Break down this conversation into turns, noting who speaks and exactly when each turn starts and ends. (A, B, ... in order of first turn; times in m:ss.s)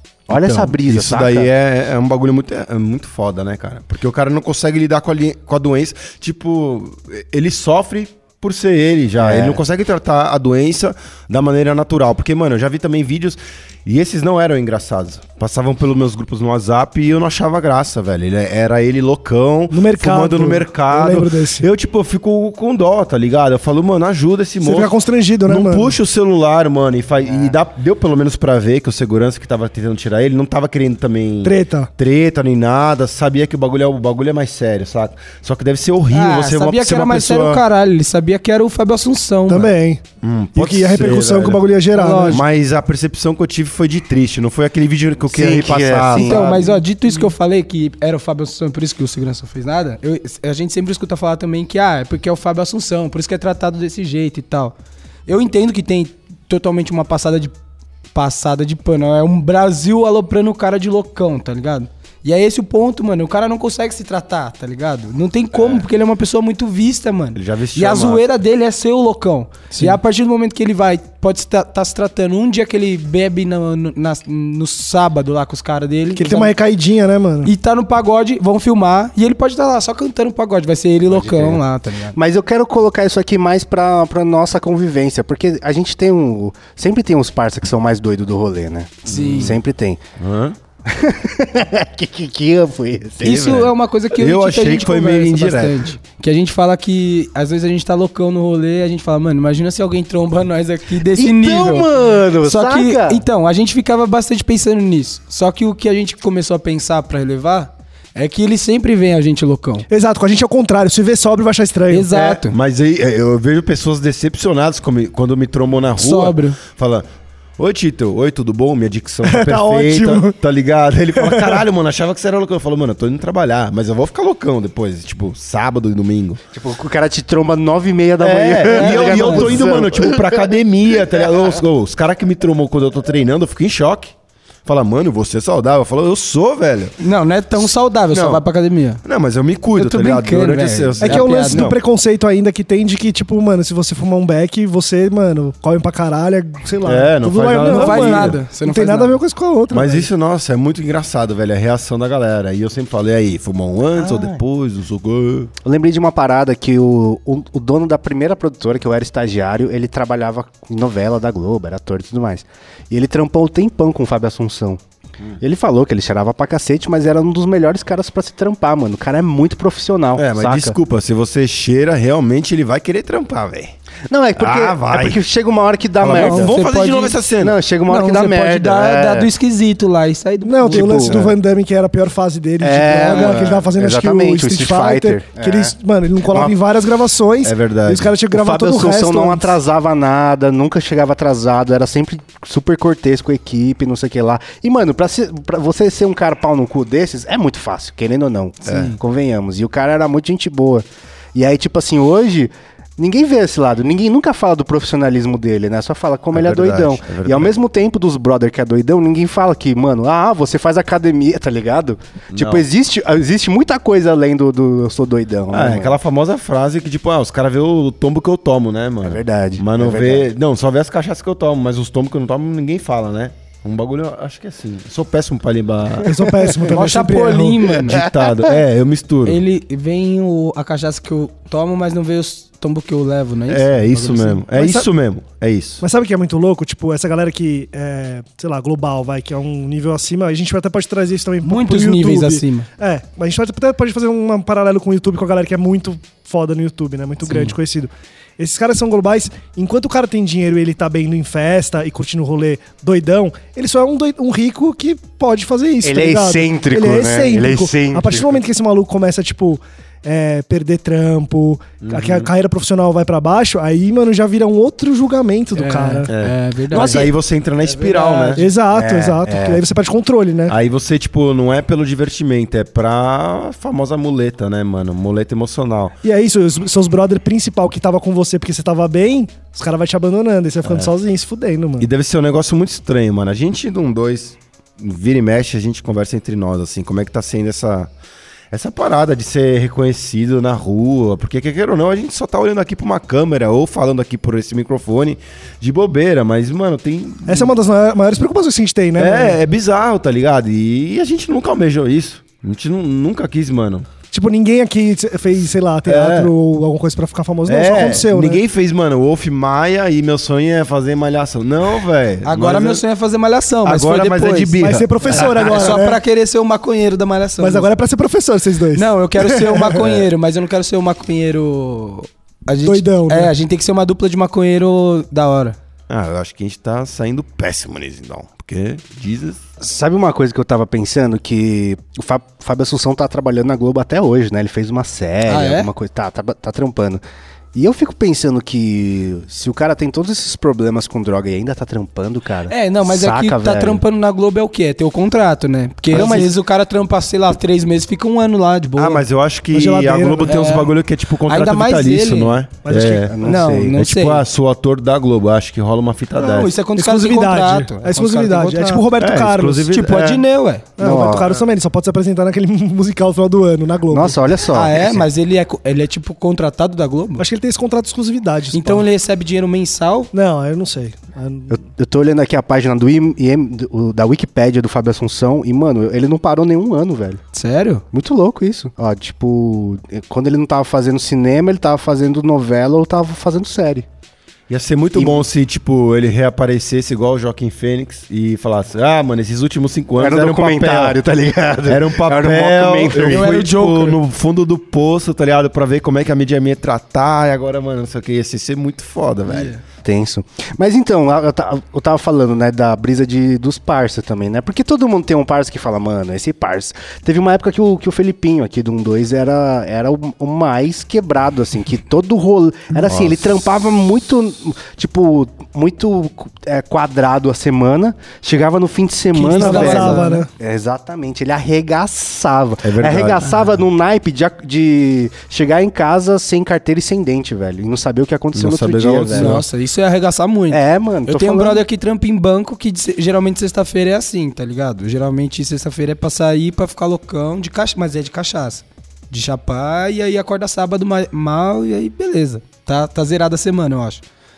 0:00.3-0:01.5 A
0:00.3-0:24.9 B
0:09.2-0:09.6 A
0:19.7-0:21.7 C
0:24.6-0:26.0 C
0:25.5-0:37.6 B
0:31.4-0:31.9 C
0:36.1-0:39.7 D
0:39.5-0:40.0 C
0:40.2-0:41.7 B
0:40.6-0:42.4 C
0:42.0-0:42.4 D
0:42.3-0:46.4 B
0:45.3-0:46.8 A
0:46.1-0:54.7 D
0:55.3-0:57.5 D
0:58.1-1:16.6 D
1:07.4-1:08.2 B
1:16.2-1:17.5 C
1:17.4-1:22.2 D
1:21.3-1:21.6 A
1:22.2-1:30.0 A
1:29.1-1:29.6 D
1:29.1-1:29.5 B
1:30.2-1:30.6 B
1:30.9-1:33.4 A
1:33.2-1:41.9 D
1:33.2-1:35.9 B
1:41.1-1:43.2 A
1:42.4-1:49.9 D
1:49.9-1:52.1 C
1:51.9-1:52.6 D
1:52.1-1:57.1 B
1:56.0-1:56.6 D
1:57.6-2:06.4 B
1:59.2-2:00.4 C
2:01.2-2:01.6 C
2:06.5-2:10.5 A
2:08.2-2:14.1 B
2:08.7-2:09.6 D
2:14.6-2:17.0 B
2:17.0-2:19.0 D
2:18.1-2:18.4 B
2:19.0-2:21.8 B
2:19.8-2:21.7 D
2:21.0-2:30.1 C
2:26.8-2:28.4 B
2:27.4-2:29.2 D
2:29.7-2:35.5 B
2:34.0-2:34.4 A
2:35.6-2:44.8 A
2:45.4-2:50.8 A
2:50.2-2:53.7 B
2:54.1-2:56.5 A
2:54.4-2:55.2 B
2:56.0-2:57.6 B
2:56.1-2:57.2 D
2:57.4-2:59.3 A
2:57.9-3:01.2 D
3:00.4-3:09.6 C
3:00.7-3:01.3 A
3:02.6-3:05.7 A
3:03.1-3:03.7 B
3:06.3-3:06.6 A
3:07.4-3:08.1 B
3:08.3-3:36.0 A
3:18.6-3:19.0 B
3:26.3-3:27.6 B
3:32.3-3:32.7 B
3:35.5-3:46.5 B
3:39.0-3:40.3 A
3:46.0-3:47.7 C
3:46.7-3:48.0 D
3:47.9-3:49.4 B
3:48.0-3:48.5 A
3:49.2-3:54.8 D
3:53.5-3:55.8 B
3:55.8-4:26.1 C
4:01.4-4:02.7 D
4:07.3-4:07.5 D
4:15.8-4:18.4 A
4:21.8-4:22.3 B
4:25.6-4:27.1 D
4:26.1-4:28.4 B
4:26.7-4:27.1 C
4:27.6-4:28.5 D
4:28.4-4:30.6 C
4:28.7-4:29.6 A
4:30.5-4:36.0 B
4:36.0-4:41.9 C
4:40.6-4:40.9 B
4:41.8-4:47.9 B
4:48.5-4:57.5 B
4:57.3-4:59.4 C
4:59.0-5:03.9 B
5:04.1-5:08.4 C
5:05.9-5:06.3 B
5:07.5-5:12.8 B
5:12.2-5:17.7 D
5:13.6-5:15.5 B
5:14.6-5:16.0 C
5:17.4-5:20.0 C
5:18.8-5:25.6 D
5:22.6-5:23.3 C
5:25.9-5:29.4 B
5:29.6-5:37.0 A
5:35.3-5:35.7 D
5:37.6-5:43.8 A
5:42.5-5:49.0 D
5:45.9-5:46.3 A
5:48.8-5:56.5 B
5:49.5-5:50.4 C
5:50.3-5:50.7 D
5:51.3-5:52.4 D
5:52.6-5:53.1 C
5:52.9-5:53.8 A
5:53.2-5:54.2 D
5:56.2-5:58.8 D
5:56.8-5:59.7 C
5:59.0-6:00.2 B
5:59.7-6:00.7 D
6:00.8-6:04.2 C
6:00.8-6:01.4 A
6:03.9-6:05.0 A
6:04.5-6:07.2 D
6:07.2-6:08.9 C
6:08.5-6:10.1 D
6:10.1-6:11.6 C
6:11.5-6:17.2 A
6:17.3-6:17.8 D
6:17.9-6:23.8 A
6:24.5-6:31.0 B
6:25.0-6:25.2 A
6:30.0-6:33.4 A
6:31.7-6:39.5 B
6:33.1-6:34.0 D
6:39.3-6:39.6 D
6:39.8-7:09.4 A
6:52.8-6:53.4 B
6:59.1-7:00.2 D
6:59.3-7:00.3 C
7:02.6-7:03.5 B
7:08.3-7:09.4 B
7:09.1-7:24.0 D
7:10.5-7:11.6 A